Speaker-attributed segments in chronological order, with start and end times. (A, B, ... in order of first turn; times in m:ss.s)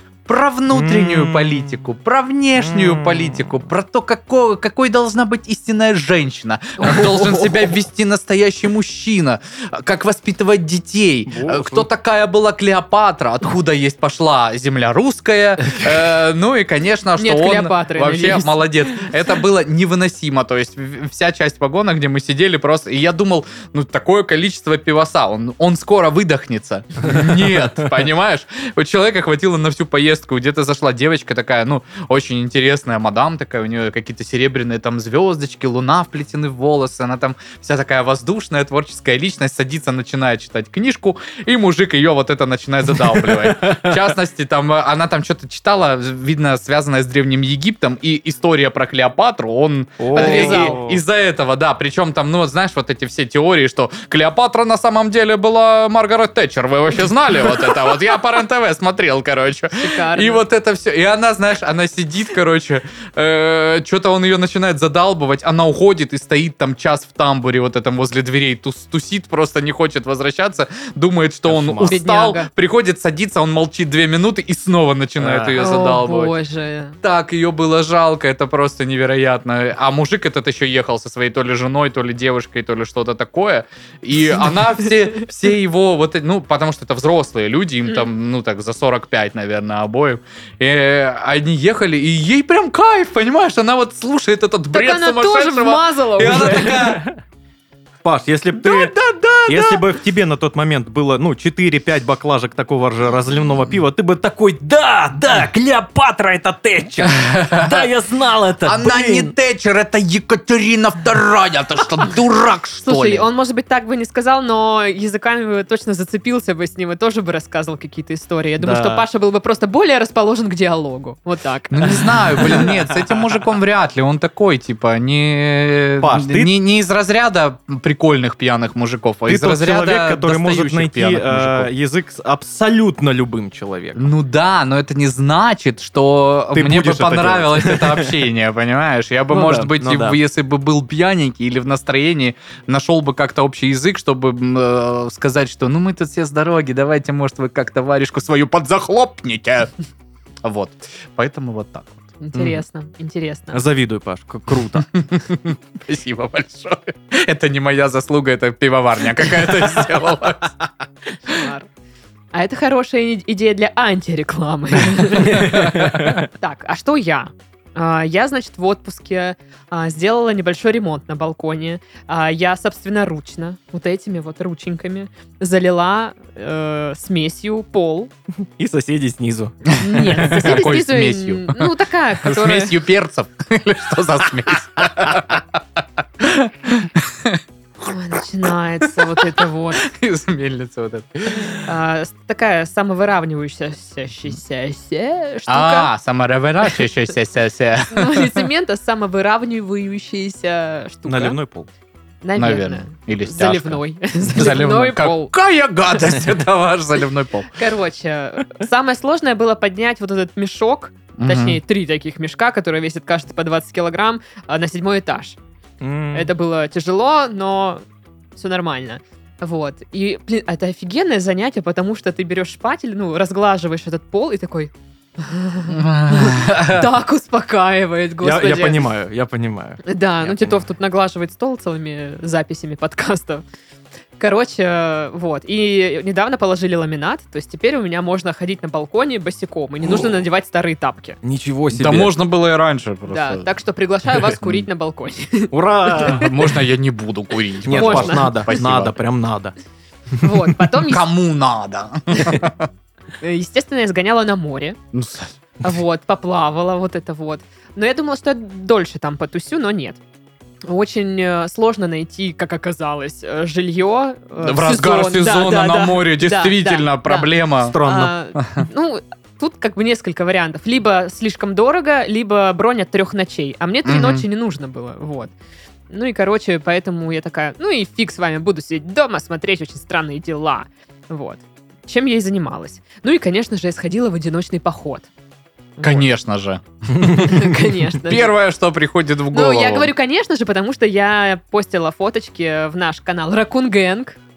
0:00.2-1:16.3 A
0:00.7-0:01.8 B
0:02.6-0:03.5 B
0:11.3-0:11.9 B
0:17.2-0:18.6 C
0:43.0-0:43.9 B
0:50.0-0:51.0 B
0:50.1-0:50.8 C
0:59.8-1:00.4 C
1:11.5-1:12.0 B
1:11.8-1:12.5 C
1:15.2-1:15.7 B
1:15.6-1:17.0 C
1:17.0-1:37.0 A
1:34.7-1:36.8 C
1:36.2-1:37.2 B
1:38.0-1:38.9 B
1:38.5-1:39.8 A
1:39.4-1:49.3 B
1:47.1-1:47.9 A
1:48.6-1:53.3 A
1:52.8-2:02.6 C
1:58.6-1:59.0 B
2:01.7-2:11.7 A
2:06.0-2:06.5 B
2:09.3-2:14.1 B
2:14.0-2:29.7 A
2:16.5-2:18.2 B
2:19.3-2:20.2 B
2:30.4-2:32.1 A
2:32.2-2:33.6 C
2:32.4-2:32.6 B
2:33.5-2:34.9 B
2:35.0-2:40.7 A
2:41.2-2:41.7 C
2:42.3-2:58.1 C
2:45.1-2:46.2 B
2:45.4-2:46.2 A
2:58.4-2:59.6 B
2:59.7-3:02.8 C
2:59.8-3:01.7 A
3:02.2-3:07.4 A
3:07.8-3:09.8 C
3:08.8-3:11.7 A
3:11.6-3:15.9 C
3:15.5-3:18.5 A
3:17.9-3:21.4 C
3:21.1-3:21.7 B
3:22.2-3:25.3 C
3:22.4-3:27.5 A
3:27.6-3:35.4 C
3:31.2-3:31.6 A
3:35.8-3:36.3 B
3:36.1-3:37.8 C
3:38.3-3:48.8 C
3:45.7-3:46.9 A
3:48.2-3:50.6 B
3:49.8-3:53.4 C
3:54.2-4:01.2 C
4:01.2-4:02.1 B
4:01.7-4:03.5 A
4:03.1-4:06.3 C
4:04.2-4:04.6 A
4:05.5-4:06.4 B
4:06.0-4:09.0 A
4:07.7-4:09.5 B
4:07.8-4:08.3 C
4:10.2-4:11.0 C
4:10.8-4:12.7 A
4:13.2-4:14.8 C
4:14.9-4:15.4 A
4:15.6-4:20.0 C
4:20.6-4:35.3 C
4:24.4-4:27.8 A
4:27.6-4:28.1 B
4:28.4-4:28.6 A
4:33.8-4:34.2 A
4:35.9-4:45.1 C
4:45.8-4:46.1 C
4:45.8-4:47.4 A
4:47.0-4:47.3 B
4:47.0-4:48.3 C
4:48.0-4:49.9 A
4:49.3-4:54.2 C